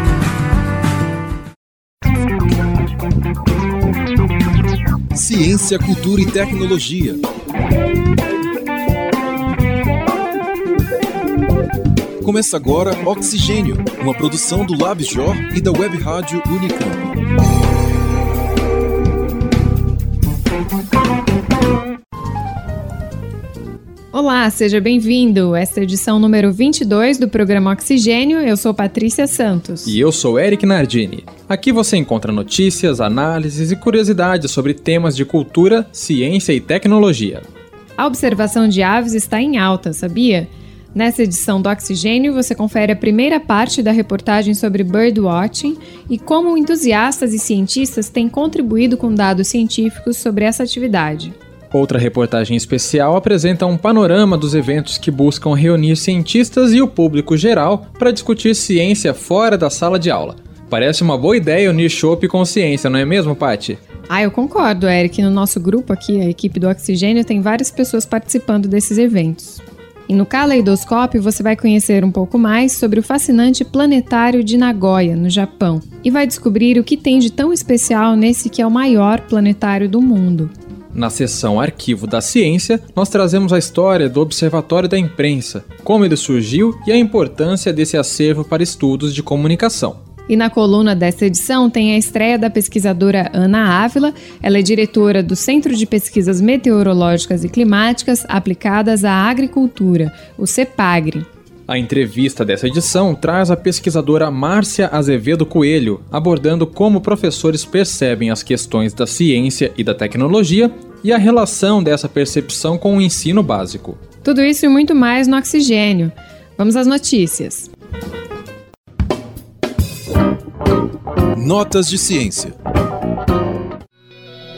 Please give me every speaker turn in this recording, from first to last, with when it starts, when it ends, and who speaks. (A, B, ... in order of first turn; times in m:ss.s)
0:05.1-0:07.2 A
0:12.2-0:17.1 A
0:24.1-0:30.0 B
0:29.8-0:37.4 C
0:38.0-0:51.4 B
0:51.7-1:03.8 C
1:04.1-1:20.5 B
1:20.9-1:30.0 C
1:30.3-1:41.3 B
1:41.7-1:54.0 C
1:54.2-1:57.7 B
2:01.4-2:02.5 A